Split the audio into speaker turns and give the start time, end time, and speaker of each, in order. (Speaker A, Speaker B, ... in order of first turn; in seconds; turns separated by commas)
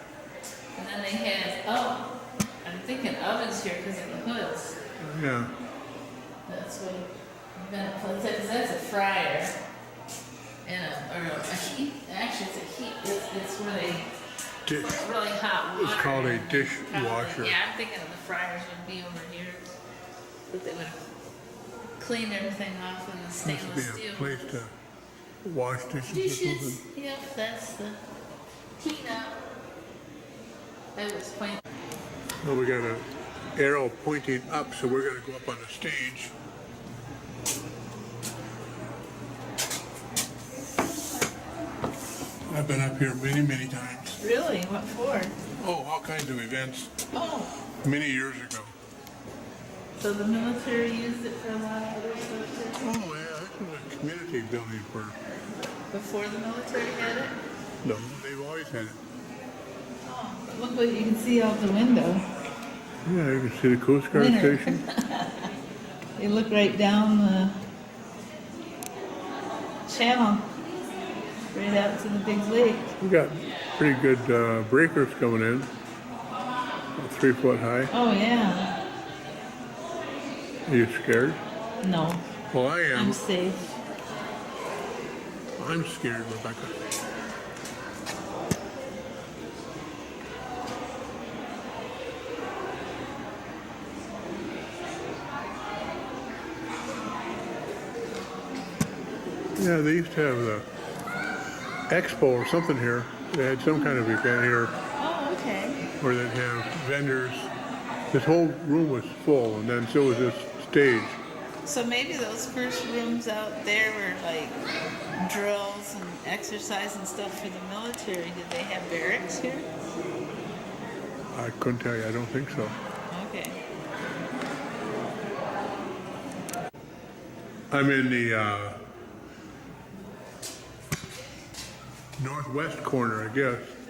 Speaker A: 0.8-2.1, Speaker A: 2.6-4.8, Speaker B: 5.0-5.5, Speaker A: 6.5-9.5, Speaker A: 10.6-14.1, Speaker B: 14.7-15.0, Speaker A: 14.8-19.7, Speaker B: 15.7-17.6, Speaker A: 20.5-21.0, Speaker A: 22.0-24.6, Speaker B: 23.4-24.7, Speaker B: 25.4-26.8, Speaker A: 26.1-28.0, Speaker A: 28.8-29.4, Speaker A: 30.9-31.6, Speaker B: 32.4-33.0, Speaker B: 33.5-36.3, Speaker B: 42.5-44.2, Speaker A: 44.2-45.3, Speaker B: 45.6-46.9, Speaker A: 47.1-47.5, Speaker B: 47.8-48.7, Speaker A: 49.9-52.9, Speaker B: 52.8-55.2, Speaker A: 55.9-57.4, Speaker B: 57.8-59.0, Speaker A: 60.0-62.2, Speaker B: 63.0-64.8, Speaker A: 64.1-65.5, Speaker A: 66.2-67.5, Speaker A: 69.9-70.5, Speaker A: 71.5-72.9, Speaker B: 73.0-75.7, Speaker B: 77.0-77.9, Speaker A: 77.9-78.8, Speaker B: 80.7-81.4, Speaker A: 81.8-82.2, Speaker B: 82.5-83.2, Speaker A: 82.9-83.6, Speaker B: 85.6-86.7, Speaker B: 99.6-100.6, Speaker B: 101.9-104.7, Speaker A: 105.0-105.8, Speaker B: 106.0-107.5, Speaker B: 108.1-111.2, Speaker A: 111.6-114.6, Speaker A: 115.2-119.7, Speaker B: 121.3-122.8, Speaker A: 123.1-123.6, Speaker B: 127.7-128.8, Speaker B: 132.2-133.7